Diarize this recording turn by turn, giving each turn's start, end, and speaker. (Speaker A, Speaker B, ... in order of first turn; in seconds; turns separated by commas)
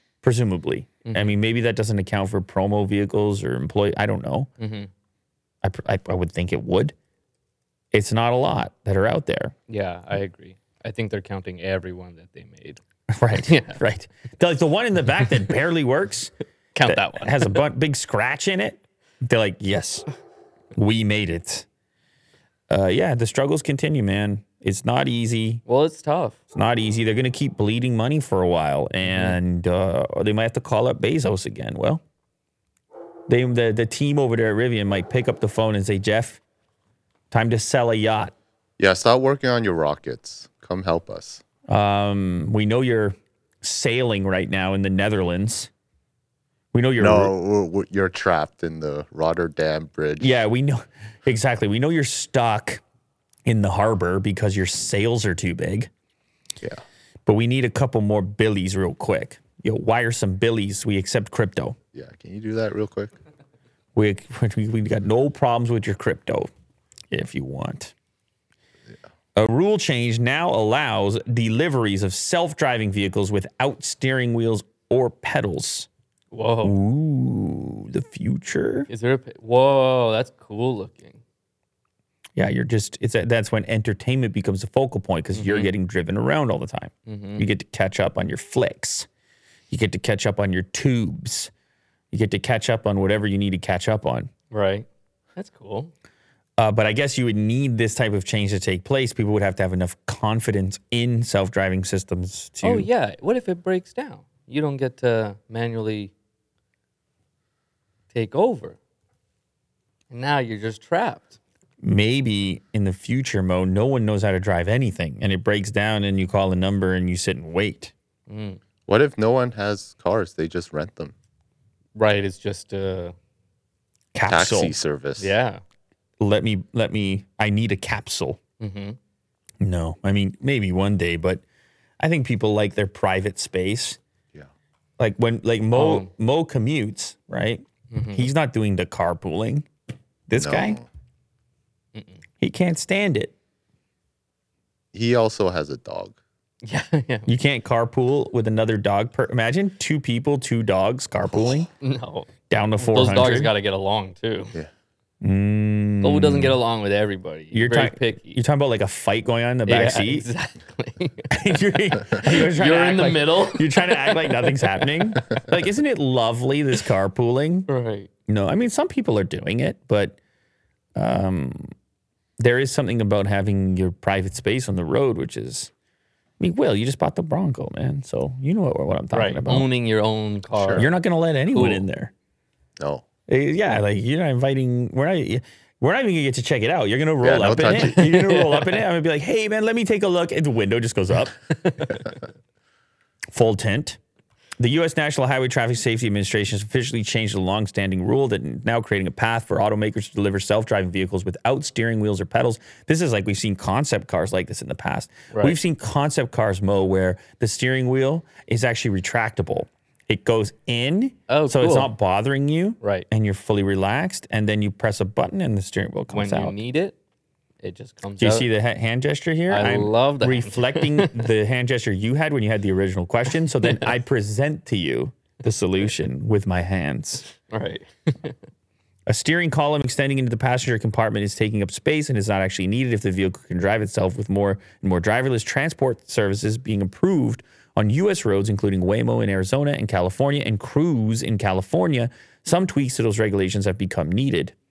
Speaker A: 0.2-4.5, Speaker B: 1.1-1.4, Speaker B: 4.6-4.9, Speaker A: 5.6-6.9, Speaker A: 7.9-9.6, Speaker B: 9.7-12.8, Speaker A: 13.1-16.3, Speaker B: 13.4-13.8, Speaker B: 16.7-17.6, Speaker A: 16.9-20.1, Speaker A: 20.7-21.6, Speaker A: 22.7-25.6, Speaker B: 25.6-26.4, Speaker A: 26.5-32.0, Speaker B: 29.1-29.4, Speaker A: 33.3-36.4, Speaker A: 37.3-38.3, Speaker C: 38.8-41.4, Speaker A: 41.7-45.7, Speaker A: 46.7-47.3, Speaker C: 47.0-50.3, Speaker A: 50.2-52.8, Speaker A: 53.5-55.9, Speaker A: 57.3-61.8, Speaker C: 61.9-63.2, Speaker A: 63.9-66.5, Speaker A: 67.1-67.9, Speaker A: 69.3-75.9, Speaker B: 76.3-76.8, Speaker A: 76.6-78.9, Speaker B: 78.9-81.2, Speaker A: 82.3-89.1, Speaker B: 85.3-85.7, Speaker B: 87.0-87.5, Speaker A: 89.7-91.5, Speaker A: 92.1-94.3, Speaker B: 94.5-95.9, Speaker A: 96.6-102.9, Speaker B: 102.6-106.1, Speaker B: 108.1-108.8, Speaker B: 110.1-111.4, Speaker A: 111.8-117.9, Speaker B: 118.3-118.6, Speaker C: 118.9-121.1, Speaker B: 121.9-123.2, Speaker A: 124.1-124.8, Speaker C: 124.3-125.3, Speaker B: 125.2-125.6, Speaker A: 126.2-128.4, Speaker B: 128.6-129.0, Speaker A: 129.6-131.4, Speaker A: 132.0-134.0, Speaker A: 135.0-139.7, Speaker B: 135.7-136.1, Speaker B: 137.9-138.3, Speaker A: 140.3-140.8, Speaker C: 140.3-140.9, Speaker A: 142.4-143.3, Speaker C: 144.9-146.2, Speaker B: 146.6-147.3, Speaker A: 147.3-151.7, Speaker B: 151.8-154.6, Speaker A: 152.5-153.6, Speaker A: 155.2-156.6, Speaker B: 156.0-158.4, Speaker A: 157.5-160.3, Speaker B: 159.7-161.4, Speaker A: 161.3-167.7, Speaker B: 162.1-165.4, Speaker B: 167.7-168.1, Speaker A: 168.3-170.2, Speaker A: 170.9-171.7, Speaker A: 172.4-175.7, Speaker A: 176.4-179.7, Speaker B: 179.1-181.8, Speaker C: 180.5-180.8, Speaker A: 180.8-182.1, Speaker C: 182.8-183.1, Speaker A: 183.3-191.4, Speaker C: 187.2-188.0, Speaker B: 188.0-188.7, Speaker A: 193.3-194.0, Speaker A: 194.6-216.6, Speaker B: 205.3-205.6, Speaker B: 211.3-211.9, Speaker B: 212.8-213.1, Speaker B: 216.1-217.0, Speaker B: 217.6-218.5, Speaker A: 218.2-227.3, Speaker B: 219.5-221.3, Speaker B: 227.3-228.4, Speaker A: 229.1-244.6